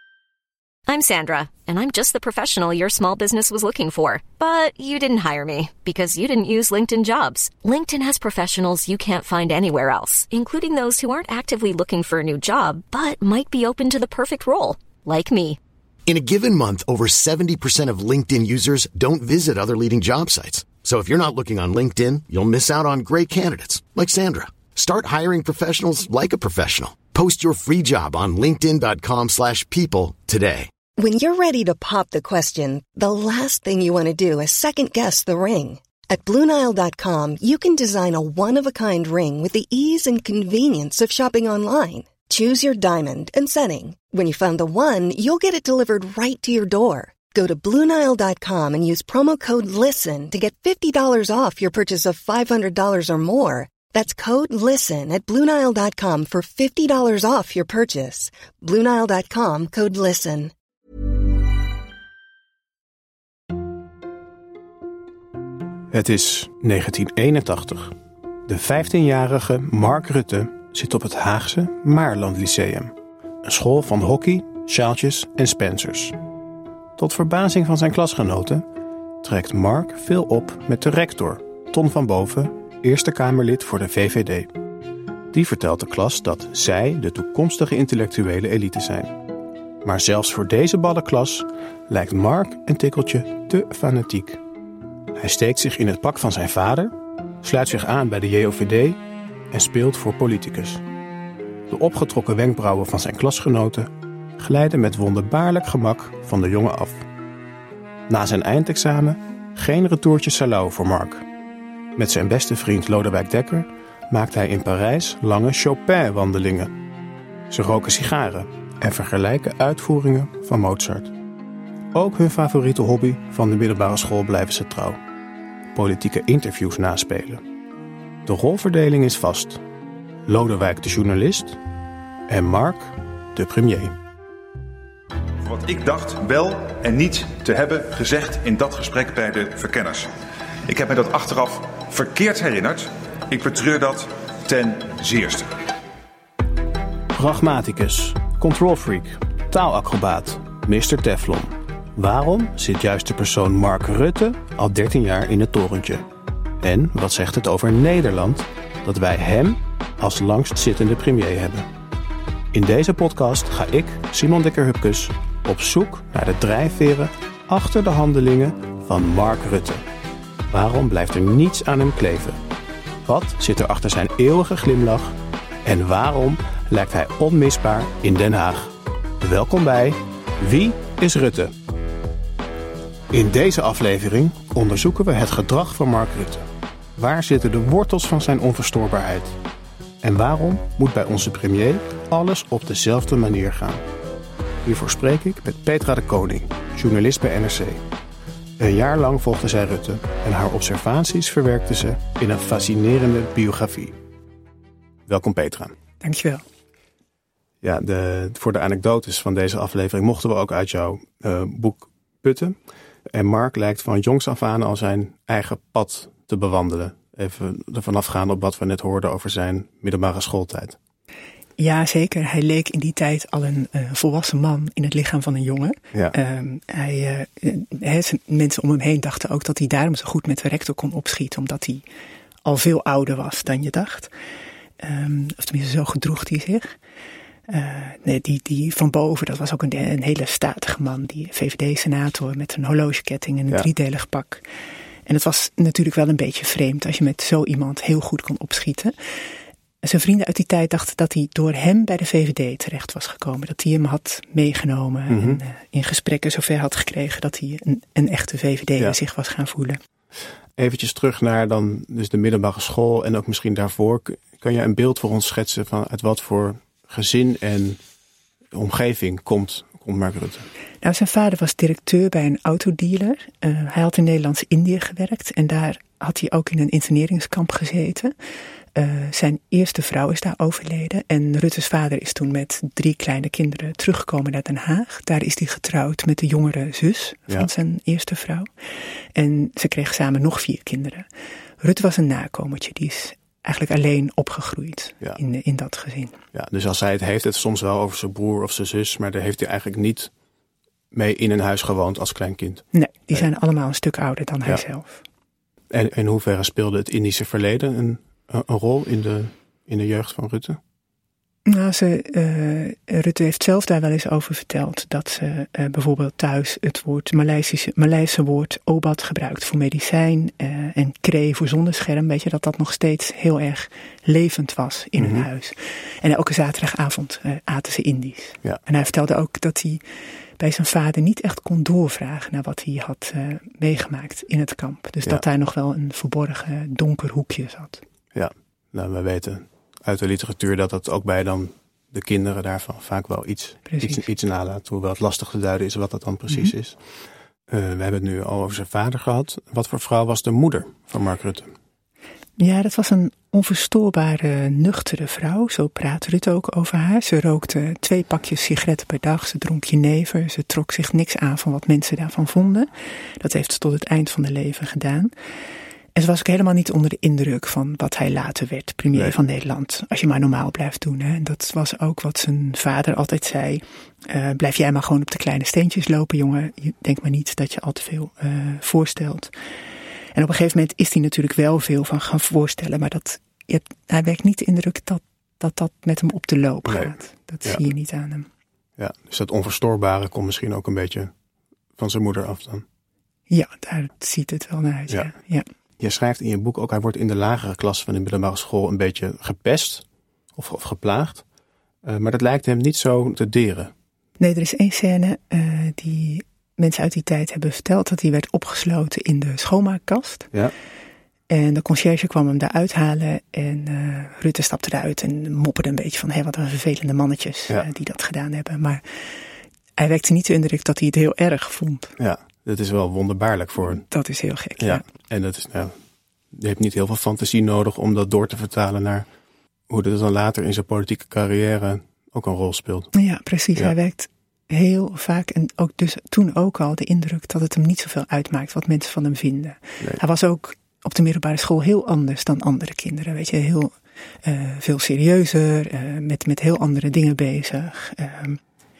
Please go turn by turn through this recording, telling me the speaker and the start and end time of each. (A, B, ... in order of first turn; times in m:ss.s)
0:00.9-0:15.6 A
0:16.1-0:30.7 B
0:31.0-1:00.5 C
1:05.9-1:16.2 D
1:17.0-1:18.6 D
1:19.2-1:24.5 D
1:25.3-1:29.2 D
1:29.8-1:34.4 D
1:35.1-1:39.0 D
1:39.5-1:40.8 D
1:41.7-1:47.0 D
1:48.1-1:51.2 D
1:52.0-1:56.7 D
1:57.5-2:01.1 D
2:01.9-2:05.0 D
2:05.7-2:07.4 D
2:08.2-2:09.6 D
2:10.2-2:11.6 D
2:12.3-2:14.0 D
2:15.4-2:20.1 E
2:20.7-2:25.5 E
2:27.1-2:36.1 D
2:36.6-2:41.7 D
2:42.5-2:49.8 D
2:50.5-2:52.4 D
2:53.0-3:01.5 D
3:03.1-3:09.4 D
3:10.0-3:13.8 D
3:14.6-3:17.8 D
3:18.6-3:24.0 D
3:25.1-3:25.7 D
3:26.0-3:26.4 F
3:27.6-3:32.6 D
3:33.1-3:40.8 D
3:41.6-3:51.8 F
3:52.4-3:54.1 F
3:54.8-3:56.7 F
3:57.5-4:04.4 F
4:05.1-4:08.9 F
4:09.8-4:19.8 F
4:15.1-4:15.4 D
4:20.6-4:27.8 D
4:28.5-4:30.5 D
4:30.8-4:38.1 F
4:38.7-4:48.5 F
4:49.1-4:51.1 F
4:51.6-4:56.2 F
4:56.3-5:00.1 D
5:00.9-5:03.2 D
5:02.7-5:05.0 F
5:05.7-5:10.6 D
5:11.4-5:29.8 F
5:25.0-5:25.2 D
5:30.4-5:37.8 F
5:38.1-5:46.8 D
5:43.7-5:44.1 F
5:47.5-5:51.5 D
5:52.4-6:05.1 F
6:05.9-6:19.3 F
6:20.1-6:28.3 F
6:26.6-6:27.6 D
6:28.8-6:31.1 D
6:31.8-6:32.6 D
6:33.3-6:35.4 F
6:35.8-6:39.8 D
6:40.4-6:41.2 D
6:41.8-6:43.7 D
6:44.2-6:50.3 F
6:51.3-6:59.0 F
6:59.8-7:01.9 F
7:02.0-7:03.8 D
7:03.6-7:04.8 F
7:04.6-7:05.8 D
7:06.3-7:09.0 D
7:09.7-7:12.9 D
7:12.9-7:28.4 F